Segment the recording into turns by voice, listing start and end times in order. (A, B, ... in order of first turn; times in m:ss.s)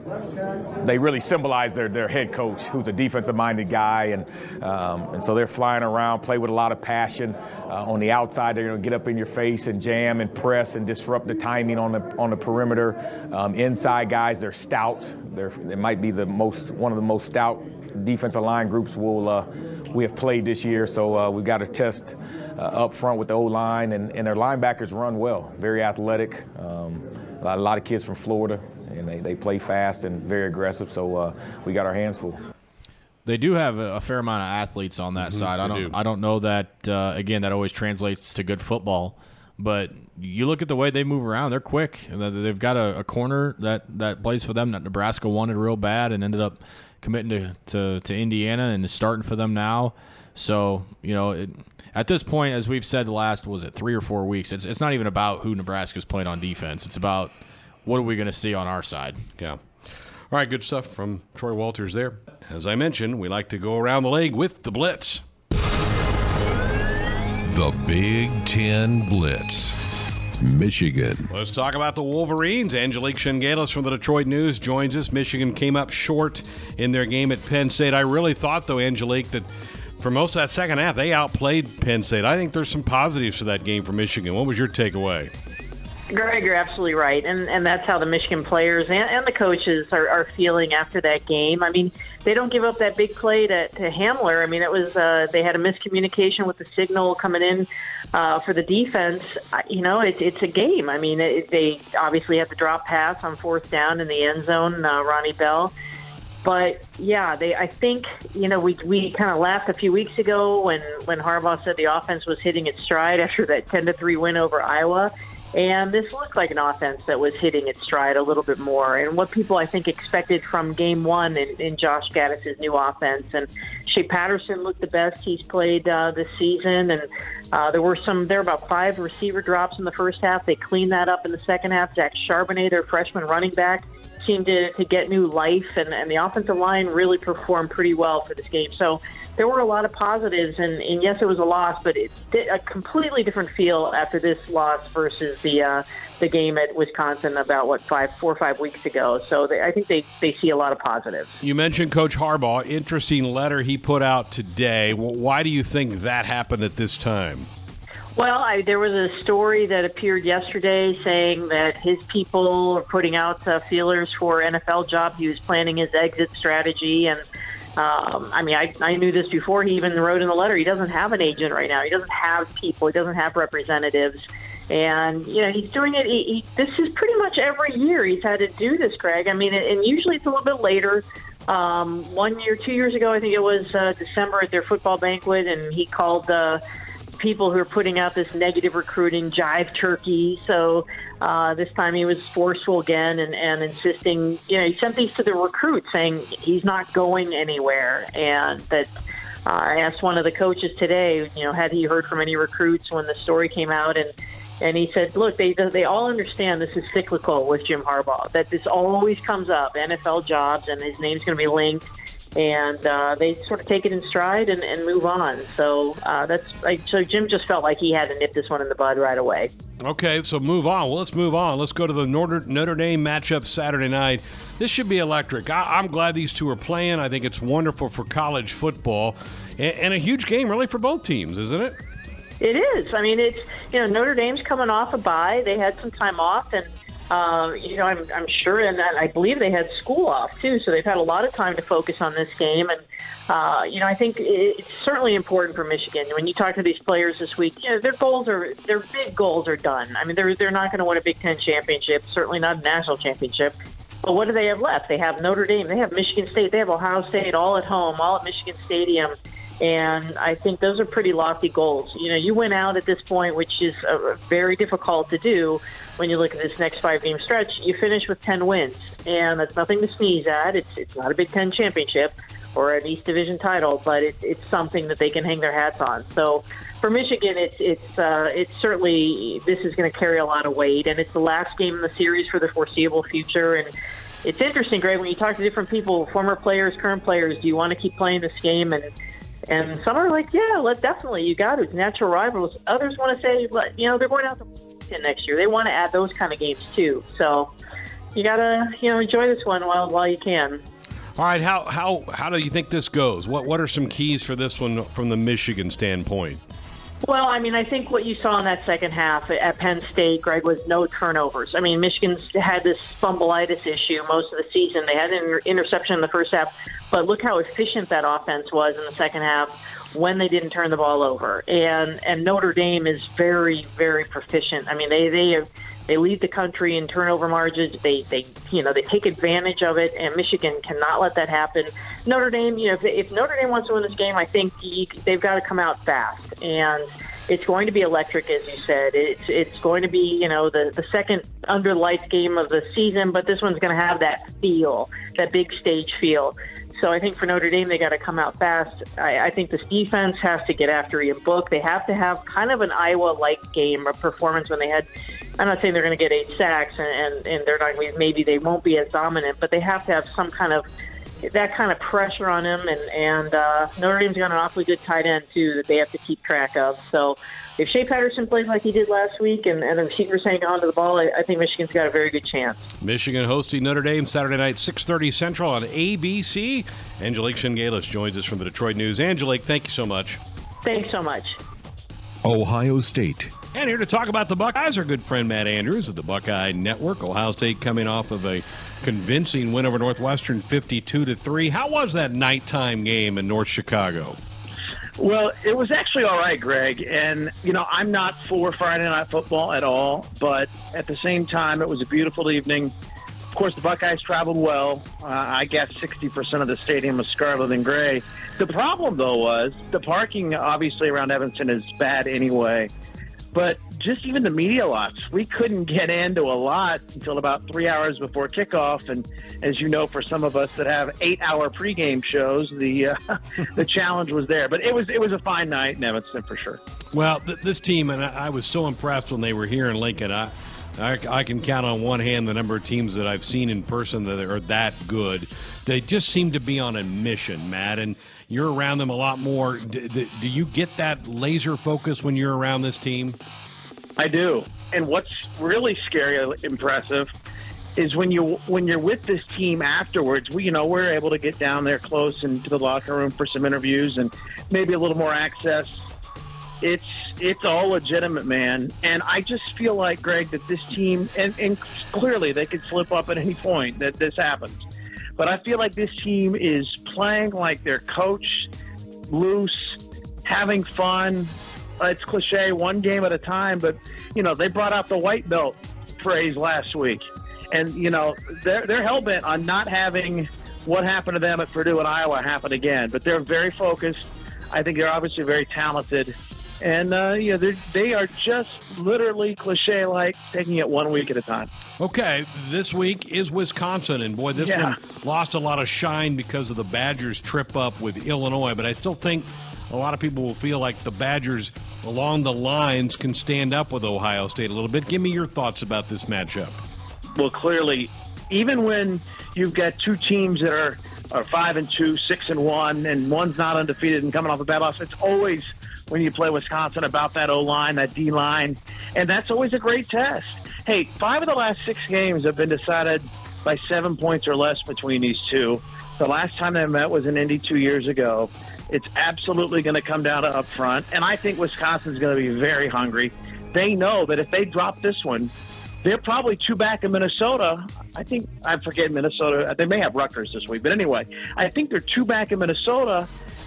0:00.8-0:32.4 A
0:33.2-0:57.3 B
0:35.2-0:35.9 C
0:57.8-0:59.2 B
0:59.4-1:05.2 C
1:07.4-1:09.8 D
1:10.4-1:11.3 D
1:11.3-1:19.5 C
1:20.0-1:25.3 C
1:26.1-1:45.7 E
1:46.4-2:31.4 E
2:31.4-2:37.5 C
2:38.2-2:47.2 E
2:47.8-3:06.6 E
3:07.2-3:18.9 E
3:19.4-3:39.5 E
3:39.8-3:51.8 C
3:52.4-4:43.7 E
4:44.2-4:48.9 E
4:49.5-4:57.5 E
4:58.1-5:00.6 E
5:01.2-5:06.4 C
5:07.0-5:54.9 E
5:55.4-6:00.6 E
6:01.2-6:12.7 E
6:12.8-6:20.2 C
6:20.6-6:21.4 E
6:22.2-6:23.3 D
6:23.5-6:34.2 C
6:35.0-6:42.7 F
6:43.3-6:52.7 F
6:53.3-7:06.6 F
7:06.9-7:23.2 C
7:24.0-7:27.1 F
7:27.8-7:35.8 F
7:36.6-7:44.6 F
7:45.2-7:48.5 F
7:49.1-8:11.5 F
8:11.8-8:26.6 C
8:14.3-8:14.8 F
8:27.2-8:55.3 F
8:55.8-9:03.1 F